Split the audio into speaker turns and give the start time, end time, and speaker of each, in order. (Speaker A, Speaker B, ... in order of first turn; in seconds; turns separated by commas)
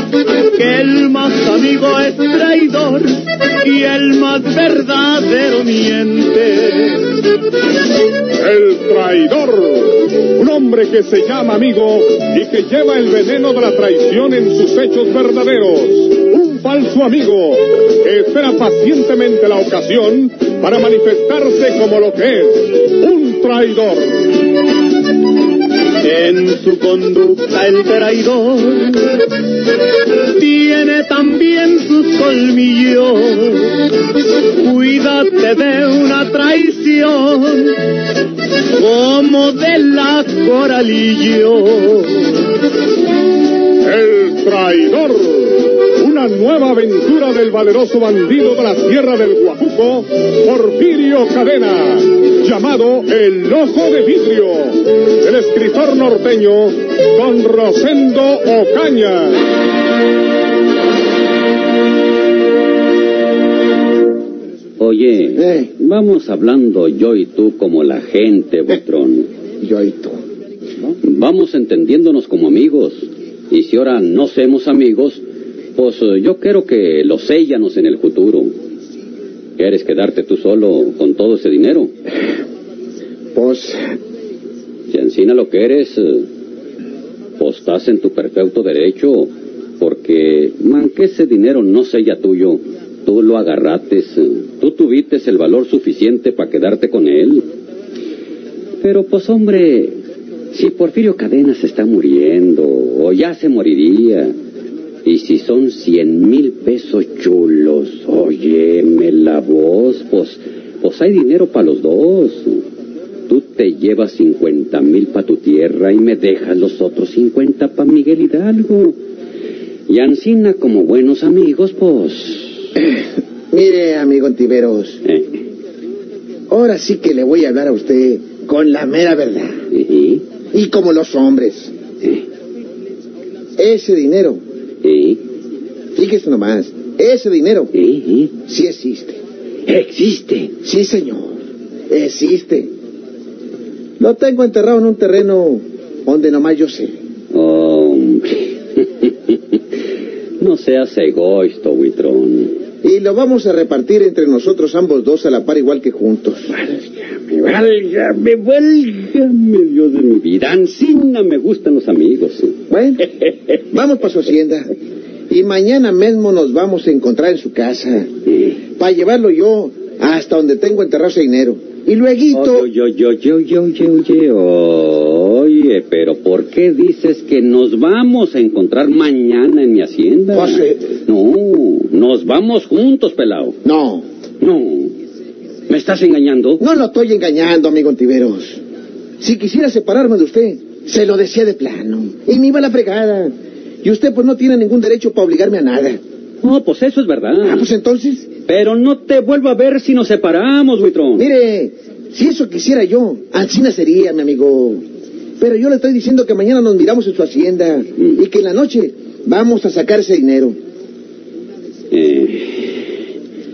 Speaker A: 0.5-7.2, Speaker B: 8.4-24.4, Speaker A: 26.0-29.1, Speaker A: 30.3-33.8, Speaker A: 34.6-37.9, Speaker A: 38.8-42.3, Speaker B: 43.8-59.5, Speaker C: 64.8-69.3, Speaker D: 65.4-65.7, Speaker D: 69.6-70.2, Speaker C: 70.8-75.2, Speaker C: 75.8-78.5, Speaker C: 79.6-81.9, Speaker D: 83.3-83.8, Speaker C: 84.9-86.3, Speaker C: 87.4-97.5, Speaker C: 98.8-100.0, Speaker C: 100.5-104.3, Speaker C: 105.0-112.7, Speaker C: 113.3-119.0, Speaker C: 119.9-122.7, Speaker D: 122.8-125.0, Speaker C: 125.0-125.4, Speaker D: 126.5-129.6, Speaker C: 129.7-130.2, Speaker D: 130.5-131.7, Speaker D: 133.6-134.4, Speaker C: 134.8-135.2, Speaker D: 136.0-137.7, Speaker C: 137.7-138.3, Speaker D: 138.4-139.2, Speaker C: 139.7-140.5, Speaker D: 140.5-142.7, Speaker D: 144.0-146.9, Speaker C: 147.3-149.4, Speaker C: 150.4-152.6, Speaker D: 152.8-156.5, Speaker C: 156.7-162.6, Speaker D: 162.7-163.1, Speaker D: 163.7-164.7, Speaker D: 165.3-168.1, Speaker D: 168.7-172.7, Speaker C: 172.3-183.6, Speaker D: 180.3-180.9, Speaker D: 183.6-184.0, Speaker C: 184.4-184.9, Speaker C: 185.7-186.6, Speaker D: 186.6-188.6, Speaker D: 189.2-193.3, Speaker D: 193.8-196.0, Speaker C: 196.4-197.7, Speaker D: 197.4-198.3, Speaker C: 198.5-201.3, Speaker D: 201.2-204.8, Speaker D: 205.4-210.6, Speaker C: 211.9-212.8